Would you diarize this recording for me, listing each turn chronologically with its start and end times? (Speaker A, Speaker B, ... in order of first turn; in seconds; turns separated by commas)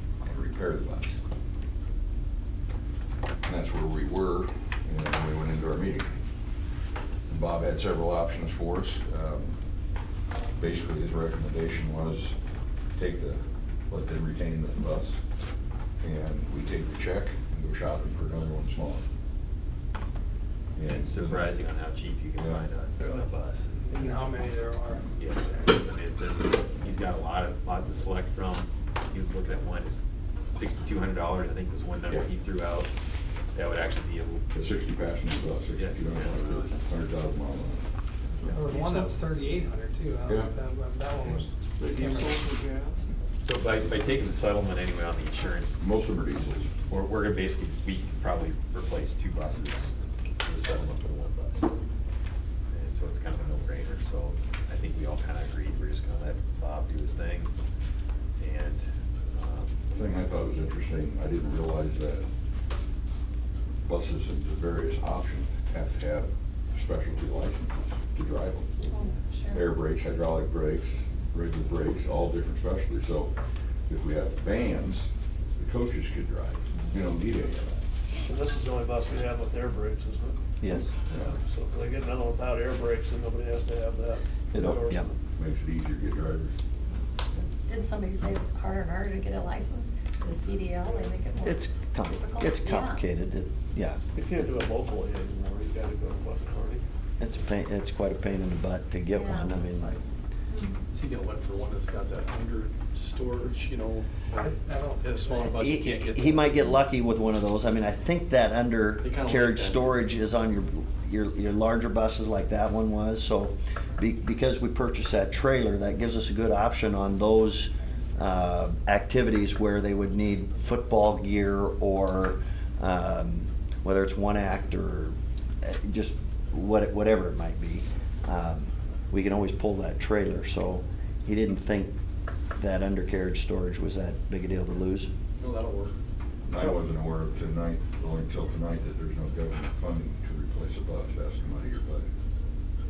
Speaker A: 0.2-1.2, Speaker A: 3.4-6.1, Speaker A: 7.3-9.6, Speaker A: 10.6-12.4, Speaker A: 12.9-15.2, Speaker A: 16.0-19.1, Speaker A: 20.7-21.5, Speaker B: 20.8-24.5, Speaker A: 22.4-22.6, Speaker C: 23.9-25.0, Speaker B: 25.2-32.9, Speaker B: 33.5-34.4, Speaker A: 34.5-37.8, Speaker B: 35.8-36.7, Speaker D: 38.4-39.0, Speaker B: 38.5-39.0, Speaker C: 38.5-42.4, Speaker A: 40.2-40.5, Speaker D: 41.8-43.0, Speaker B: 43.4-45.7, Speaker A: 45.8-46.7, Speaker B: 46.9-51.7, Speaker B: 52.7-57.5, Speaker B: 58.4-59.8, Speaker A: 59.9-62.3, Speaker A: 63.8-69.0, Speaker E: 68.9-69.7, Speaker A: 69.5-73.3, Speaker A: 73.9-77.8, Speaker D: 78.2-80.4, Speaker F: 80.6-80.9, Speaker A: 81.1-81.4, Speaker D: 81.2-85.1, Speaker F: 84.5-85.1, Speaker A: 85.3-86.6, Speaker E: 87.7-93.0, Speaker F: 91.4-94.0, Speaker D: 94.1-96.8, Speaker F: 97.2-99.9, Speaker E: 99.1-99.6, Speaker E: 100.5-100.8, Speaker G: 100.9-104.5, Speaker C: 104.3-106.1, Speaker G: 105.0-106.4, Speaker F: 105.5-131.9, Speaker G: 109.0-110.0, Speaker F: 132.6-135.1, Speaker G: 135.3-135.9, Speaker A: 136.4-142.1